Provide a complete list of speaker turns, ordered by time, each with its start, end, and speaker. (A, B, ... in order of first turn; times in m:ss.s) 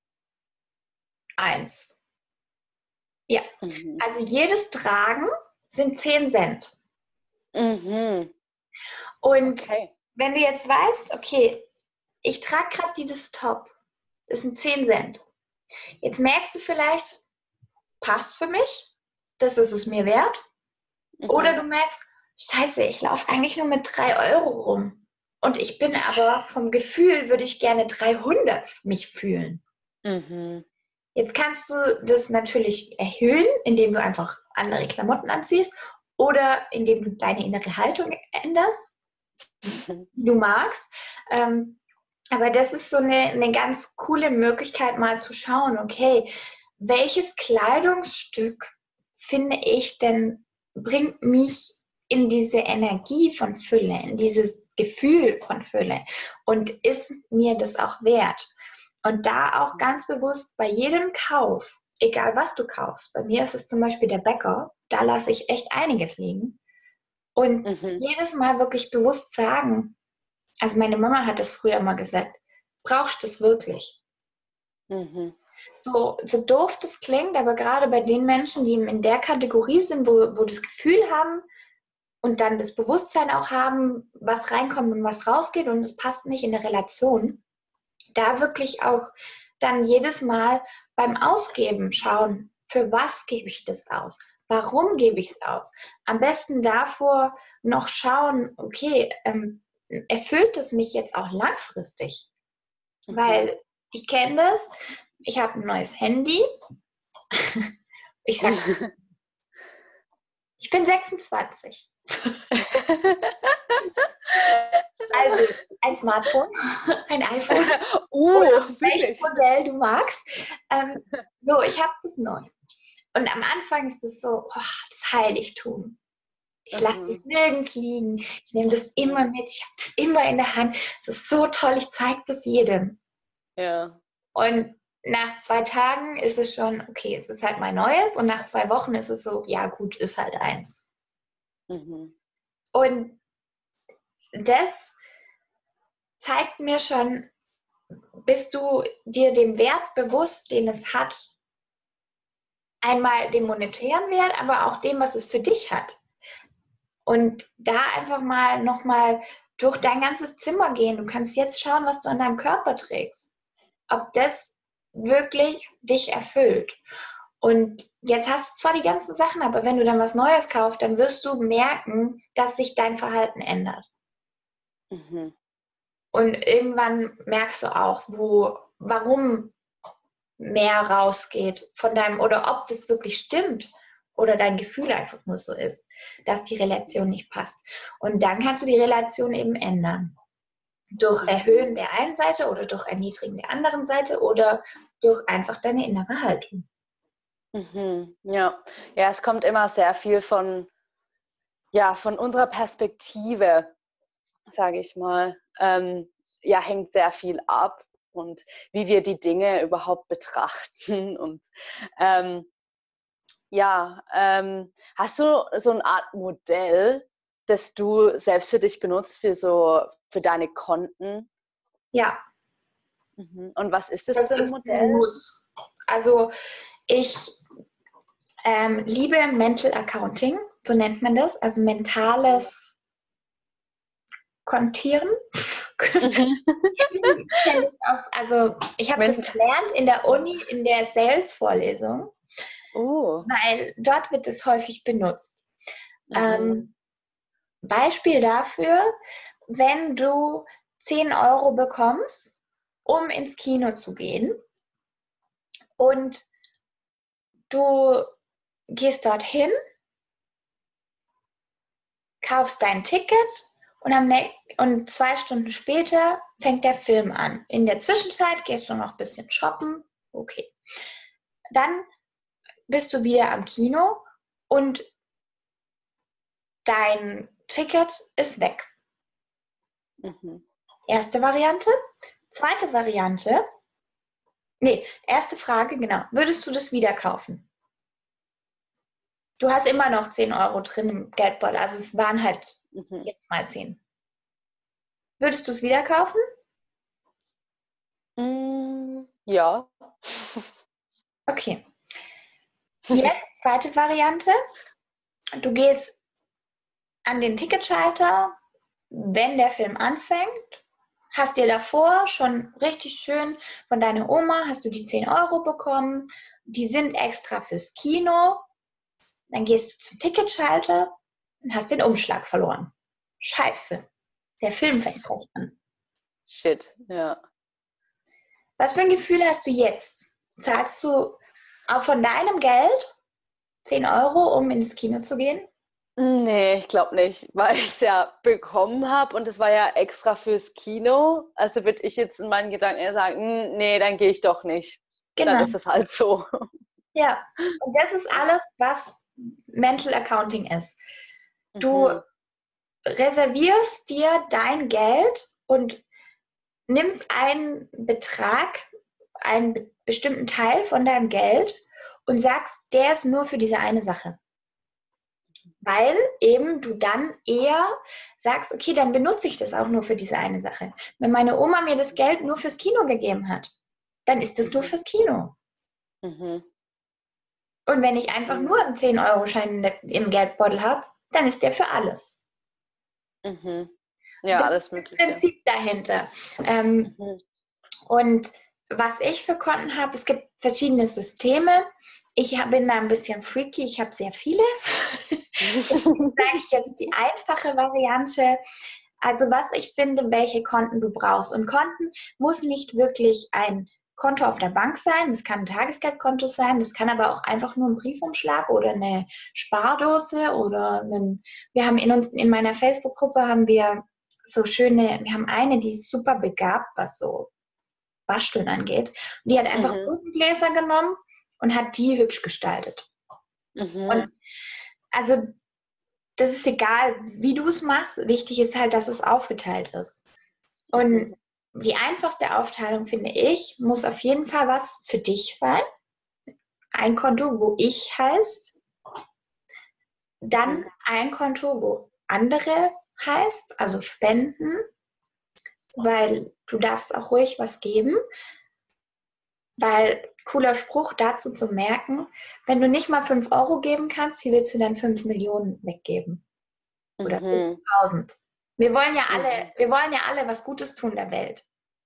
0:01.4-0:02.0 A
0:03.6-0:04.0 B
0:04.0-0:06.7 A
0:07.5-0:08.3 B
0:09.2-0:11.7 A
0:09.4-0:09.9 B
0:12.2-0:13.7 A
0:14.3-0:15.2 A
0:16.0-0:17.2 A
0:18.0-0:20.4 A
0:21.2-0:21.6 B
0:21.3-0:29.6 A
0:30.0-0:30.6 B
0:31.1-0:38.9 A
0:39.6-0:40.1 B
0:40.2-0:41.8 A
0:42.3-0:58.5 A
0:59.0-1:06.6 A
1:07.4-1:09.9 A
1:07.6-1:08.0 B
1:10.6-1:14.0 A
1:14.9-1:15.4 B
1:15.8-1:21.4 A
1:22.2-1:27.4 A
1:28.1-1:42.3 A
1:43.1-1:43.5 B
1:43.1-1:46.4 A
1:47.3-1:47.7 A
1:48.2-1:48.7 A
1:48.4-1:48.9 B
1:50.6-1:52.4 A
1:52.5-1:55.4 B
1:55.1-1:57.8 A
1:57.5-1:59.3 B
1:58.3-2:02.5 A
2:03.1-2:06.0 A
2:06.7-2:13.0 A
2:06.7-2:07.2 B
2:13.6-2:14.0 B
2:14.3-2:20.8 A
2:21.7-2:22.1 B
2:22.7-2:23.2 A
2:24.3-2:24.9 A
2:26.2-2:27.3 A
2:28.2-2:31.3 A
2:32.8-2:36.0 A
2:37.0-2:43.3 A
2:43.9-2:46.8 A
2:47.4-2:53.9 A
2:54.9-2:55.3 B
2:56.1-2:59.5 A
3:00.4-3:10.1 A
3:11.0-3:16.6 A
3:17.5-3:20.7 B
3:21.7-3:23.7 B
3:24.5-3:31.5 B
3:32.0-3:32.5 B
3:33.5-3:41.3 B
3:41.9-3:42.2 A
3:43.2-3:45.1 B
3:44.2-3:46.3 A
3:46.9-3:47.4 A
3:48.4-3:52.7 A
3:54.4-3:56.2 A
3:56.0-3:57.4 B
3:56.8-4:02.1 A
3:59.0-3:59.3 B
4:02.7-4:03.3 B
4:03.2-4:05.4 A
4:06.1-4:06.7 B
4:06.1-4:06.7 A
4:07.6-4:08.9 A
4:09.5-4:12.3 A
4:12.8-4:14.4 A
4:15.8-4:16.2 A
4:17.5-4:18.1 A
4:18.7-4:19.5 A
4:22.2-4:30.5 A
4:31.5-4:31.8 A
4:32.7-4:34.9 A
4:36.6-4:38.7 A
4:40.0-4:40.4 B
4:40.9-4:41.7 A
4:42.3-4:43.4 A
4:44.6-4:47.5 A
4:49.4-4:53.8 A
4:52.7-4:53.1 B
4:55.2-4:56.2 A
4:58.2-5:00.5 B
5:01.3-5:01.6 A
5:02.9-5:04.4 A
5:05.4-5:05.9 A
5:07.0-5:08.3 A
5:08.9-5:10.6 A
5:11.1-5:18.4 A
5:19.3-5:20.9 A
5:21.4-5:23.8 A
5:24.4-5:25.6 A
5:26.3-5:27.2 B
5:28.6-5:32.9 A
5:33.6-5:35.5 A
5:36.0-5:46.5 B
5:45.2-5:45.5 A
5:46.9-5:50.8 A
5:51.6-5:52.0 B
5:51.6-5:52.0 A
5:52.8-5:55.8 A
5:56.7-5:58.7 A
5:59.2-6:04.2 A
6:05.6-6:13.5 A
6:14.0-6:15.3 A
6:14.4-6:14.7 B
6:16.0-6:16.4 B
6:17.7-6:22.2 A
6:18.3-6:18.6 B
6:23.2-6:23.7 B
6:24.2-6:25.2 B
6:24.3-6:26.9 A
6:26.9-6:27.2 B
6:27.9-6:38.4 A
6:35.4-6:36.2 B
6:39.0-6:57.3 A
6:58.1-7:02.9 A
6:59.5-6:59.9 B
7:03.6-7:04.1 B
7:03.9-7:04.1 A
7:04.9-7:05.3 A
7:06.2-7:10.0 A
7:10.7-7:15.6 A
7:10.8-7:11.1 B
7:16.7-7:18.6 A
7:20.2-7:24.6 A
7:25.8-7:28.0 A
7:29.6-7:36.2 A
7:37.0-7:37.6 B
7:37.0-7:41.4 A
7:39.1-7:39.5 B